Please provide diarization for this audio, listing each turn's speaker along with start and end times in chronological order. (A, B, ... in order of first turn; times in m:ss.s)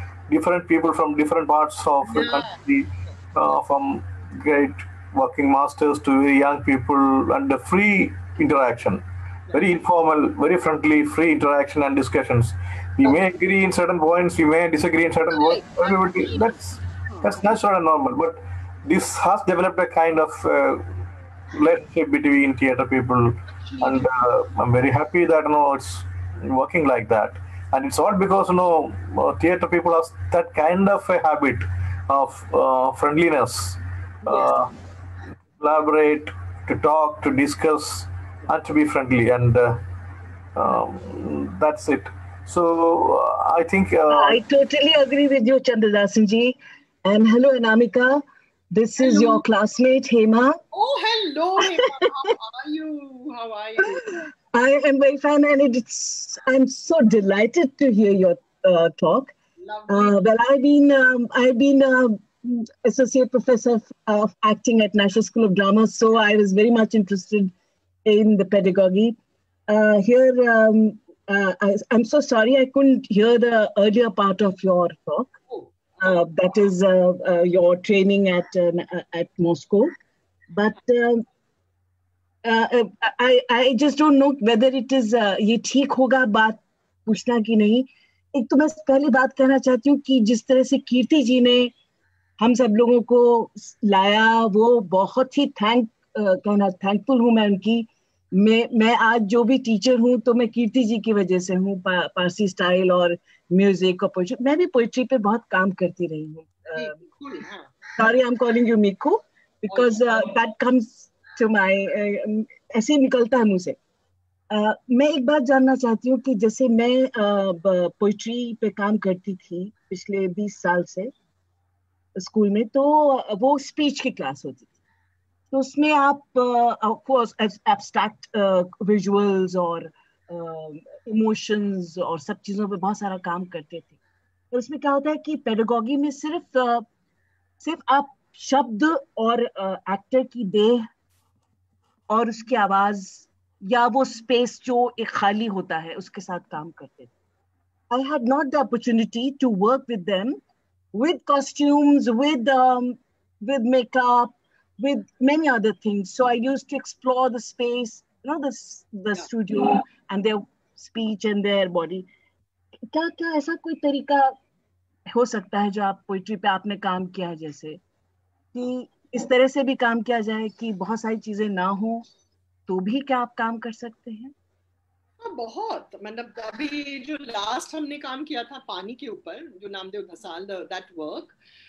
0:00.3-0:20.9 A
0:02.1-0:02.6 B
0:15.3-0:17.4 B
0:21.5-0:34.7 A
0:23.6-0:24.0 B
0:35.6-0:39.8 A
0:40.6-0:44.4 A
0:44.1-0:50.6 C
0:49.0-0:49.4 B
0:50.7-0:54.2 B
0:54.5-0:59.3 C
0:59.6-1:00.2 B
0:59.9-1:07.5 C
1:08.0-1:09.2 C
1:09.7-1:15.3 C
1:16.0-1:19.9 C
1:20.5-1:21.2 C
1:22.4-1:31.7 C
1:32.4-1:47.0 C
1:46.8-1:47.7 B
1:48.0-1:53.8 C
1:49.7-1:50.2 B
1:54.5-2:01.1 C
2:02.2-2:04.7 C
2:05.5-2:14.0 C
2:14.5-2:16.9 C
2:17.6-2:20.9 C
2:22.1-2:27.1 C
2:27.9-2:30.4 C
2:30.9-2:42.1 C
2:42.9-2:44.4 C
2:45.1-2:47.8 C
2:48.5-2:52.0 C
2:52.7-2:54.3 C
2:55.2-3:01.4 B